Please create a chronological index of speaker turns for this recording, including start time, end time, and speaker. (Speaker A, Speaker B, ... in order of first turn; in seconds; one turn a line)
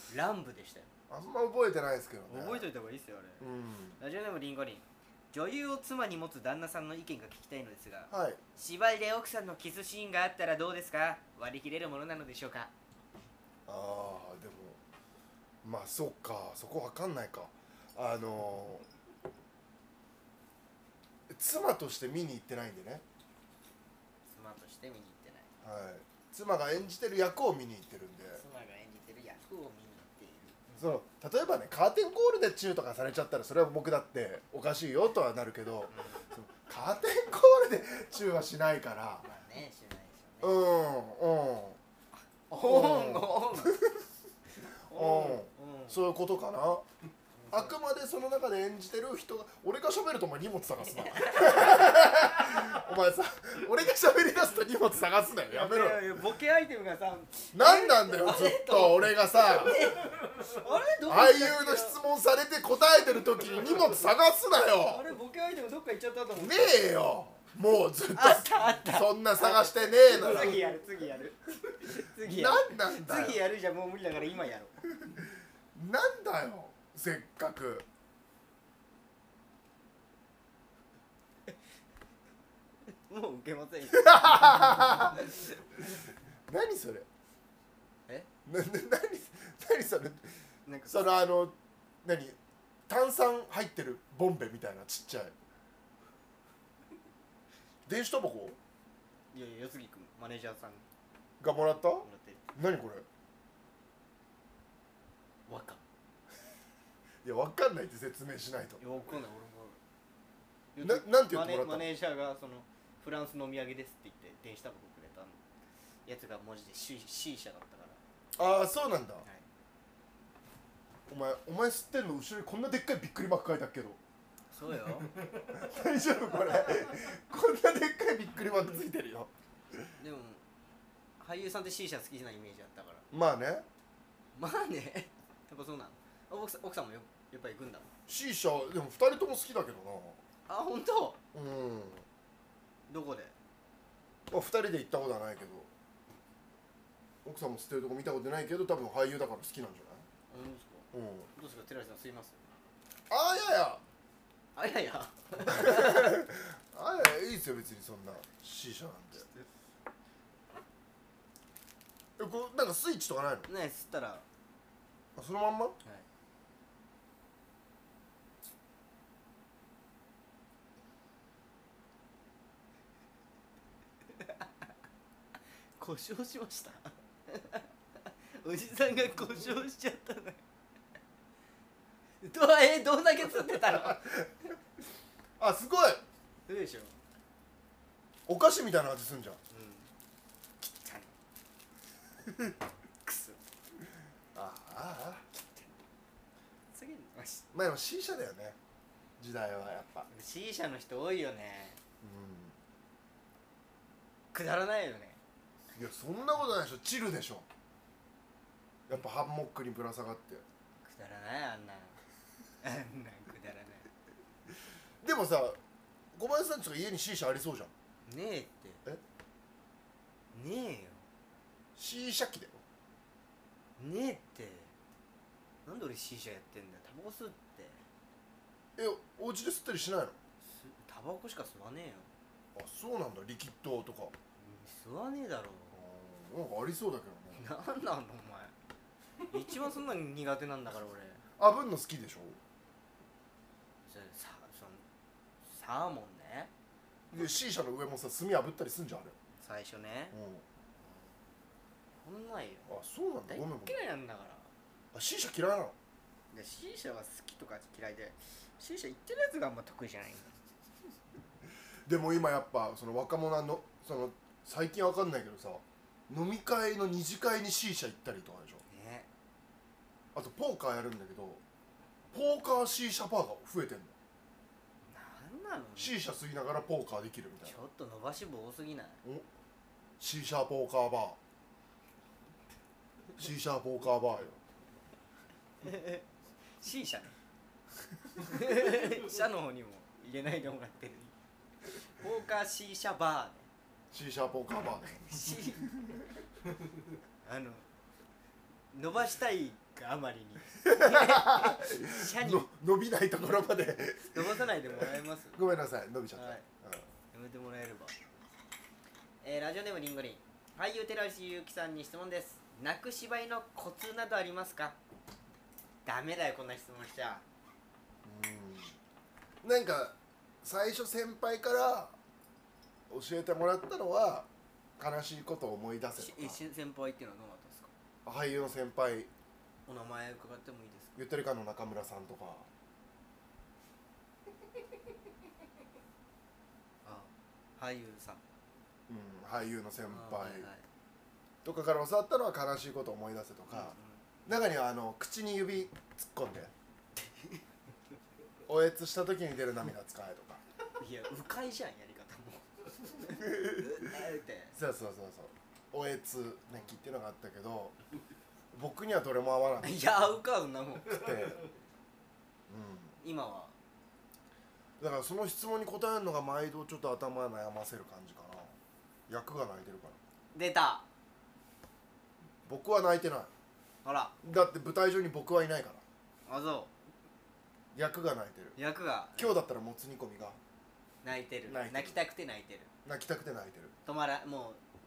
Speaker A: 0.1-0.9
Speaker B: 1.1-2.7
Speaker A: 2.3-3.4
Speaker B: 3.4-4.0
Speaker A: 4.0-12.7
Speaker B: 8.1-8.4
Speaker B: 13.7-14.8
Speaker B: 15.6-18.8
Speaker B: 21.3-23.0
Speaker A: 24.3-25.5
Speaker B: 25.6-28.4
Speaker A: 28.3-30.9
Speaker B: 30.8-39.2
Speaker A: 35.9-36.3
Speaker A: 39.2-40.6
Speaker B: 40.4-41.8
Speaker A: 42.5-43.8
Speaker B: 42.6-44.0
Speaker A: 44.6-46.0
Speaker B: 44.8-46.8
Speaker A: 47.4-47.7
Speaker B: 47.5-56.1
Speaker A: 50.9-52.1
Speaker A: 55.5-62.0
Speaker B: 57.5-59.8
Speaker B: 61.1-65.0
Speaker A: 64.8-66.8
Speaker B: 66.3-70.6
Speaker A: 68.1-74.7
Speaker B: 72.2-73.4
Speaker B: 75.7-77.8
Speaker A: 83.1-85.5
Speaker B: 83.9-85.2
Speaker B: 86.5-87.0
Speaker B: 88.5-90.4
Speaker A: 90.7-91.1
Speaker B: 90.9-92.4
Speaker B: 92.9-95.3
Speaker B: 97.8-98.6
Speaker A: 99.3-100.8
Speaker B: 101.4-103.0
Speaker A: 102.0-102.4
Speaker A: 105.5-105.8
Speaker B: 107.2-108.8
Speaker A: 108.8-109.8
Speaker A: 110.8-115.4
Speaker B: 110.8-111.9
Speaker A: 116.0-118.0
Speaker B: 118.3-119.2
Speaker B: 121.1-124.0
Speaker A: 124.5-125.1
Speaker B: 125.5-129.9
Speaker A: 130.0-130.4
Speaker A: 131.2-133.0
Speaker B: 133.1-133.7
Speaker A: 134.3-137.9
Speaker B: 138.1-140.2
Speaker A: 140.5-141.2
Speaker B: 141.3-142.0
Speaker A: 142.9-143.3
Speaker B: 144.3-145.7
Speaker B: 147.2-150.0
Speaker A: 150.3-152.4
Speaker B: 150.9-151.3
Speaker B: 153.1-153.8
Speaker A: 154.6-156.2
Speaker B: 155.5-159.3
Speaker B: 162.2-163.5
Speaker A: 163.5-164.2
Speaker B: 165.2-165.8
Speaker A: 175.8-177.7
Speaker A: 178.3-180.4
Speaker A: 182.2-184.1
Speaker B: 183.7-184.3
Speaker B: 185.4-186.0
Speaker A: 186.5-186.9
Speaker B: 188.3-189.4
Speaker A: 189.5-189.9
Speaker A: 190.6-191.1
Speaker A: 193.0-193.4
Speaker B: 194.3-195.2
Speaker A: 195.3-195.7
Speaker A: 196.7-197.4
Speaker B: 197.5-198.6
Speaker B: 199.2-200.1
Speaker A: 200.1-201.8
Speaker B: 202.0-202.6
Speaker A: 204.3-205.2
Speaker B: 205.7-207.4
Speaker B: 208.9-210.4
Speaker A: 210.8-212.0
Speaker A: 212.6-213.9
Speaker B: 215.0-215.6
Speaker B: 216.1-217.7
Speaker A: 218.1-218.8
Speaker A: 220.3-221.1
Speaker B: 221.8-222.6
Speaker A: 223.8-224.7
Speaker A: 225.7-227.8
Speaker B: 228.8-230.2
Speaker A: 230.4-232.1
Speaker B: 232.5-234.1
Speaker A: 234.4-235.8
Speaker B: 235.7-237.4
Speaker A: 237.3-238.5
Speaker A: 239.3-241.2
Speaker B: 241.4-242.4
Speaker A: 243.8-244.8
Speaker A: 245.5-246.5
Speaker B: 247.1-249.2
Speaker A: 249.4-250.2
Speaker B: 250.1-250.4
Speaker A: 252.0-252.7
Speaker B: 252.7-253.8
Speaker A: 253.3-254.5
Speaker B: 254.9-255.7
Speaker A: 256.3-260.4
Speaker B: 261.9-268.6
Speaker A: 268.7-269.1
Speaker B: 270.1-271.4
Speaker B: 272.1-273.9
Speaker A: 274.9-275.9
Speaker B: 275.8-277.6
Speaker A: 277.4-279.0
Speaker B: 280.0-281.2
Speaker B: 283.2-284.4
Speaker A: 285.6-286.0
Speaker A: 286.6-287.1
Speaker A: 288.2-291.1
Speaker A: 291.7-293.5
Speaker B: 293.9-295.1
Speaker A: 295.0-295.7
Speaker B: 295.6-296.1
Speaker A: 297.2-297.6
Speaker A: 298.7-302.5
Speaker B: 300.6-306.9
Speaker A: 304.0-305.4
Speaker A: 306.1-306.4
Speaker A: 307.1-307.9
Speaker A: 309.2-314.8
Speaker A: 315.8-317.2
Speaker B: 318.0-318.8
Speaker B: 319.4-321.9
Speaker B: 322.9-326.4
Speaker A: 326.0-327.7
Speaker B: 328.0-329.1
Speaker A: 329.7-330.9
Speaker B: 330.9-332.5
Speaker A: 336.8-338.2
Speaker B: 338.9-340.5
Speaker A: 339.9-340.6
Speaker B: 341.4-343.7
Speaker A: 343.5-344.0
Speaker B: 344.2-346.5
Speaker B: 348.5-350.4
Speaker A: 350.8-354.5
Speaker B: 353.2-353.9
Speaker B: 354.5-357.7
Speaker B: 358.5-359.9
Speaker A: 359.6-361.1
Speaker B: 360.9-361.4
Speaker B: 362.5-362.9
Speaker A: 363.0-363.5
Speaker B: 364.8-368.5
Speaker B: 369.1-370.0
Speaker A: 370.3-370.9
Speaker B: 372.4-373.3
Speaker A: 373.8-374.1
Speaker B: 374.2-375.8
Speaker A: 376.3-376.7
Speaker B: 377.7-378.6
Speaker A: 378.6-379.4
Speaker B: 379.1-380.4
Speaker A: 381.0-382.7
Speaker B: 381.5-382.0
Speaker B: 382.8-383.7
Speaker A: 383.9-384.6